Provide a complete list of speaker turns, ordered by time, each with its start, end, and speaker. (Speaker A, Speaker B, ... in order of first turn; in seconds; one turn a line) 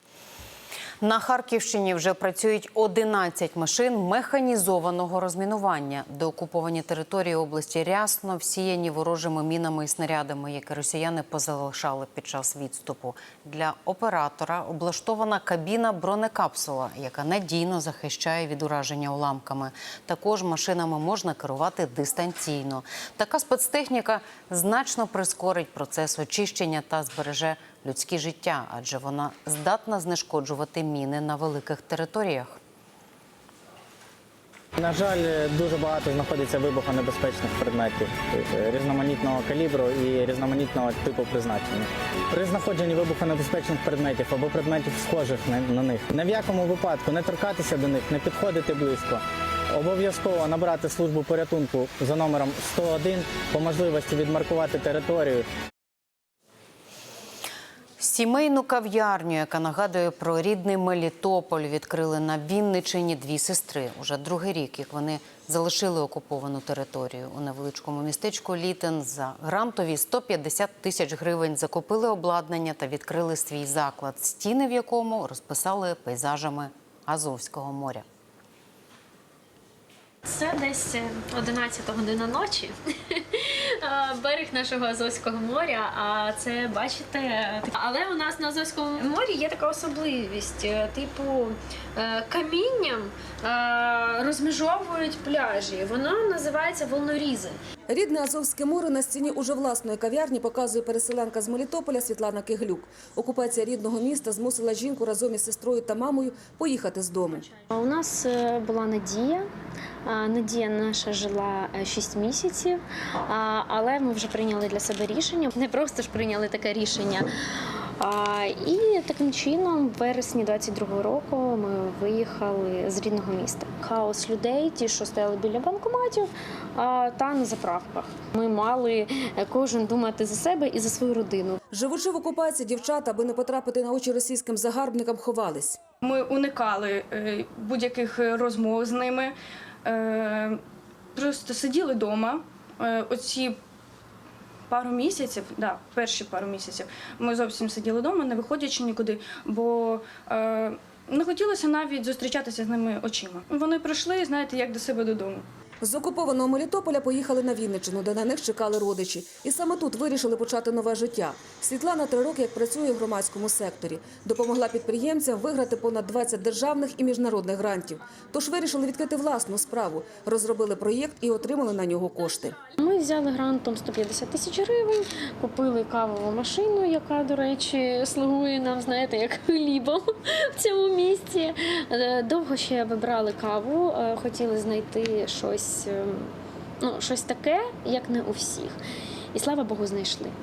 Speaker A: 1.0-32.6
Speaker B: 34.8-55.5
Speaker A: 58.0-78.0
Speaker C: 80.3-97.6
Speaker D: 97.9-107.5
Speaker C: 107.7-109.5
Speaker C: 110.0-117.3
Speaker C: 118.0-131.6
Speaker D: 131.7-135.8
Speaker E: 136.0-140.6
Speaker E: 141.1-143.6
Speaker E: 144.7-155.4
Speaker D: 155.8-172.6
Speaker C: 172.8-188.8
Speaker C: 189.3-190.3